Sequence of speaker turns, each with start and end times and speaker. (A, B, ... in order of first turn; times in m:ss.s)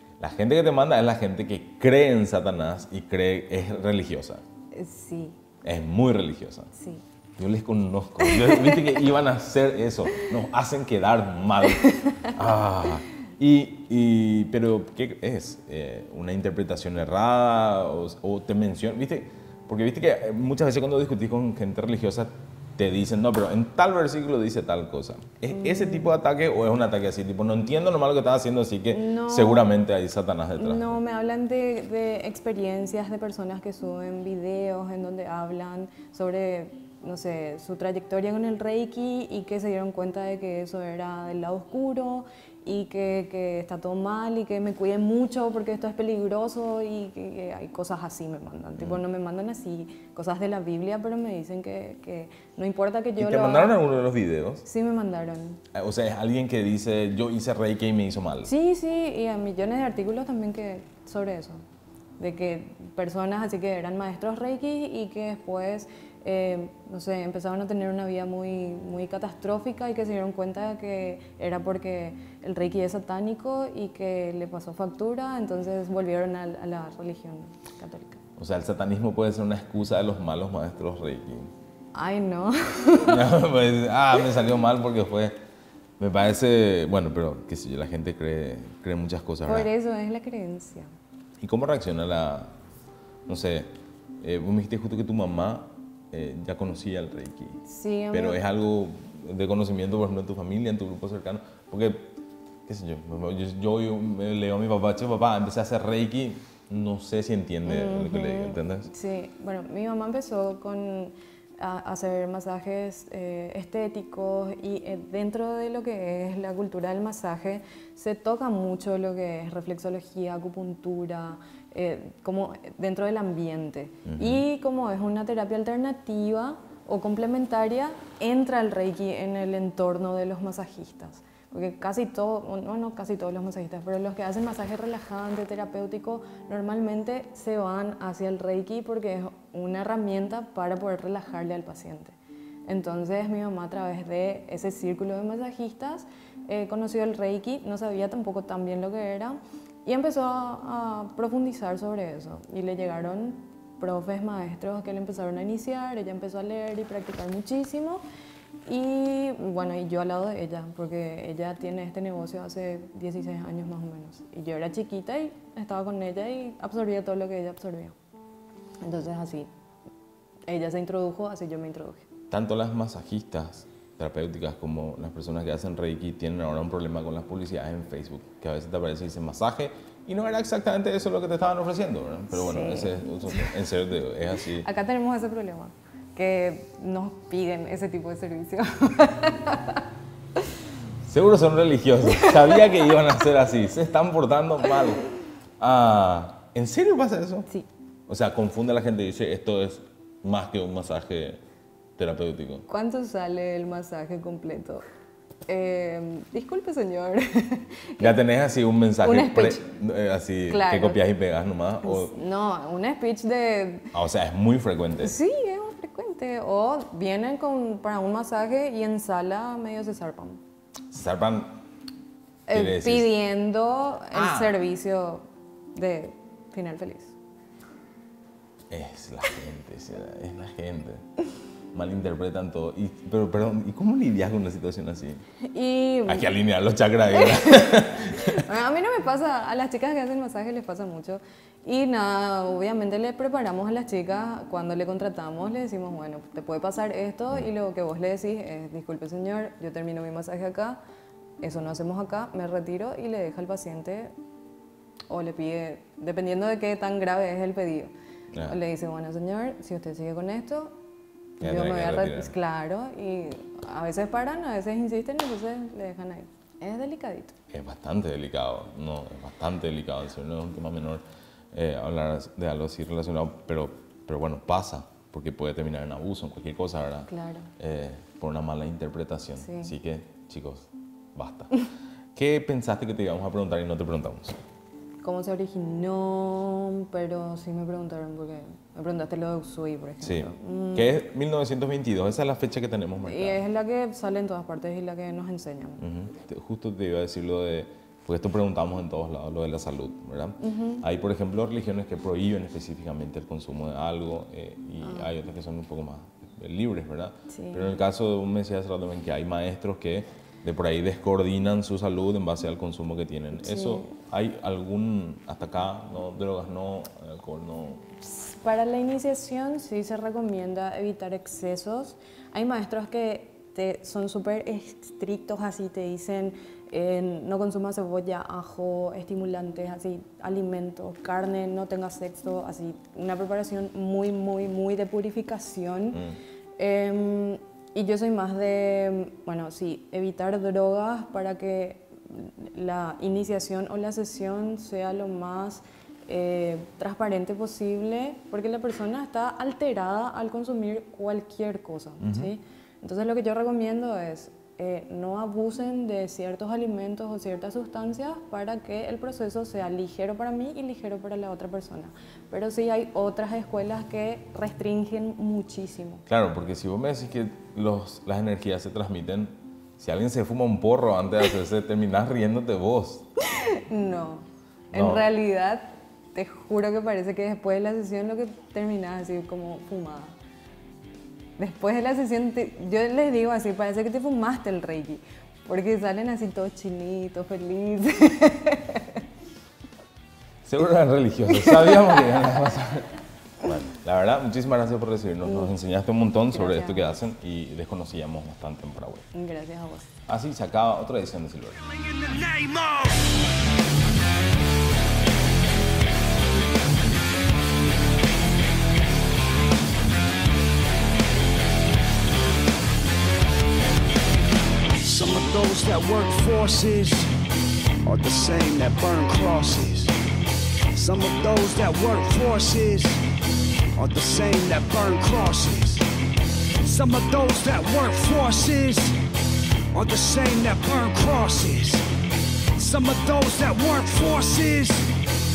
0:00.2-0:04.4 A
0:04.7-0:05.4 B
0:05.6-0:06.7 A
0:06.7-0:07.0 B
0:07.4-0:31.0 A
0:08.2-0:09.0 B
0:11.9-0:12.3 B
0:25.5-0:26.1 B
0:28.9-0:29.7 B
0:30.6-0:53.8 B
0:53.2-0:54.6 A
0:54.6-0:55.6 B
0:55.7-0:58.5 A
0:58.4-1:01.6 B
1:02.2-1:18.2 B
1:18.4-1:21.5 A
1:22.0-1:23.3 B
1:23.0-1:25.4 A
1:26.0-1:29.7 A
1:29.5-1:30.9 B
1:31.4-1:32.5 A
1:33.3-1:37.6 A
1:37.6-1:38.4 B
1:38.1-1:42.2 A
1:42.7-1:48.9 A
1:47.6-2:22.2 B
2:04.1-2:04.4 A
2:22.7-2:38.0 B
2:38.7-2:48.0 B
2:48.8-2:49.5 B
2:50.5-2:52.1 B
2:52.3-3:04.7 A
3:02.3-3:03.6 B
3:04.6-3:09.8 B
3:11.1-3:15.0 A
3:12.0-3:12.8 B
3:15.6-3:17.5 A
3:18.1-3:21.4 A
3:22.0-3:22.6 A
3:22.7-3:24.8 B
3:25.5-3:28.2 B
3:28.0-3:32.2 A
3:29.0-3:29.7 B
3:30.5-3:31.0 B
3:31.8-3:33.9 B
3:33.9-3:35.2 A
3:35.0-3:40.4 B
3:40.9-3:41.6 A
3:42.5-3:45.2 B
3:42.5-3:43.1 A
3:44.1-3:44.6 A
3:45.7-3:47.2 B
3:48.7-3:51.0 A
3:51.7-3:55.2 A
3:55.4-3:56.3 B
3:56.1-3:58.4 A
3:57.1-4:10.8 B
4:11.4-4:14.1 B
4:15.1-4:17.9 B
4:18.4-4:20.8 B
4:21.4-4:27.4 B
4:21.4-4:22.3 A
4:27.5-4:31.0 A
4:31.5-4:41.5 A
4:37.1-4:37.5 B
4:39.4-4:39.7 B
4:42.2-4:44.4 A
4:45.0-4:50.9 B
4:50.0-4:53.4 A
4:53.0-4:55.8 B
4:55.8-5:17.8 A
5:00.4-5:00.8 B
5:04.8-5:05.1 B
5:07.3-5:07.8 B
5:13.4-5:13.9 B
5:18.0-5:36.0 B
5:36.6-6:06.0 B
5:52.0-5:52.3 A
6:06.1-6:13.1 A
6:13.2-6:20.2 B
6:14.7-6:15.0 A
6:21.4-6:29.0 B
6:30.4-6:39.1 A
6:31.5-6:31.7 B
6:35.2-6:35.5 B
6:36.3-6:37.0 B
6:39.1-6:39.9 B
6:40.1-6:41.6 A
6:41.7-6:43.0 C
6:54.8-6:57.1 C
6:57.8-7:00.0 C
7:00.7-7:03.0 C
7:03.8-7:05.9 C
7:06.6-7:09.0 C
7:09.7-7:11.9 C
7:12.6-7:15.0 C